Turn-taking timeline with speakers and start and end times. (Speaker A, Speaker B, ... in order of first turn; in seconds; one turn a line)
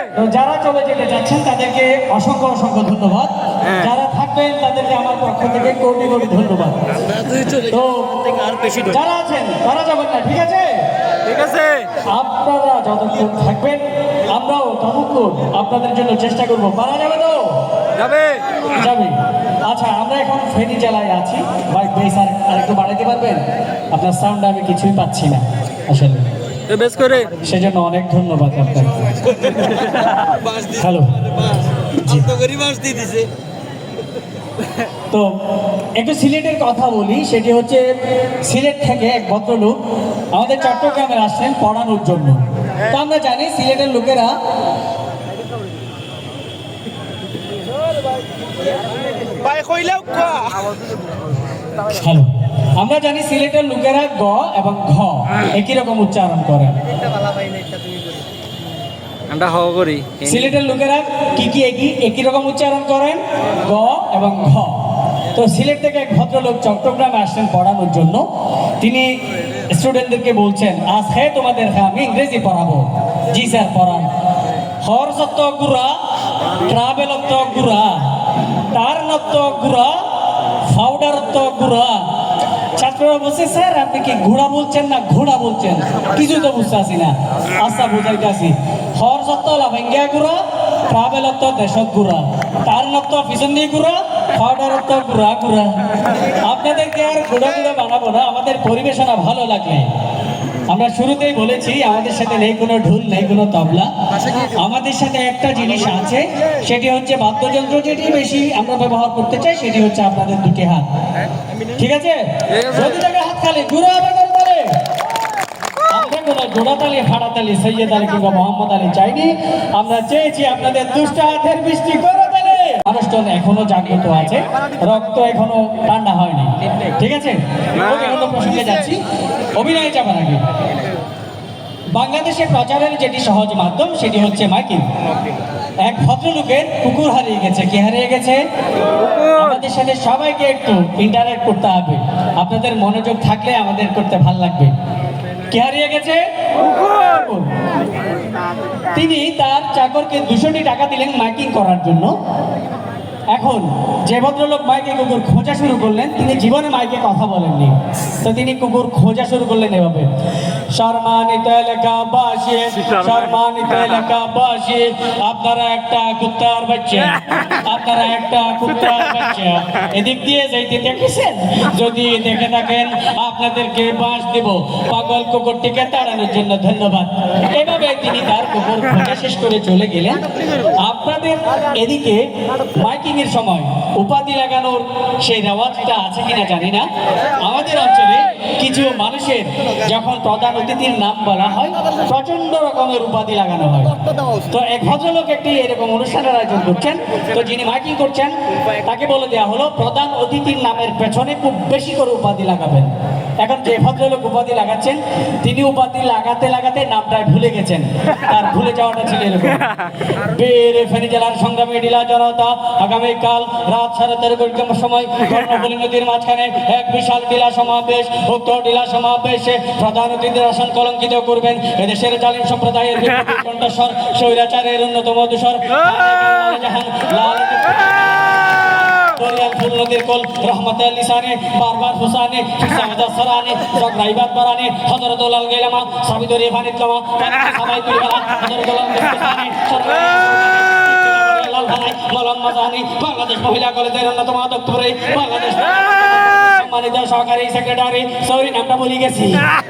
Speaker A: 0.1-6.8
Speaker A: 7.4-10.8
Speaker B: 11.3-11.9
Speaker A: 12.0-17.6
Speaker B: 18.0-18.4
Speaker A: 18.7-26.3
Speaker B: 26.7-27.4
Speaker A: 27.3-29.6
Speaker A: 30.5-32.5
Speaker B: 32.5-33.2
Speaker A: 35.1-35.4
Speaker A: 36.0-37.9
Speaker A: 38.4-39.8
Speaker A: 40.3-44.3
Speaker B: 49.5-50.4
Speaker A: 51.9-56.8
Speaker B: 59.3-60.2
Speaker A: 60.2-68.3
Speaker A: 68.8-74.1
Speaker A: 74.8-76.0
Speaker A: 76.6-82.1
Speaker A: 82.7-99.9
Speaker A: 100.7-110.9
Speaker A: 111.8-114.8
Speaker A: 115.9-129.0
Speaker A: 129.5-130.4
Speaker A: 131.9-134.9
Speaker A: 135.8-138.4
Speaker A: 139.2-144.7
Speaker A: 145.5-147.6
Speaker A: 148.9-152.2
Speaker A: 153.3-160.1
Speaker A: 160.7-180.2
Speaker A: 180.8-228.1
Speaker A: 229.1-249.5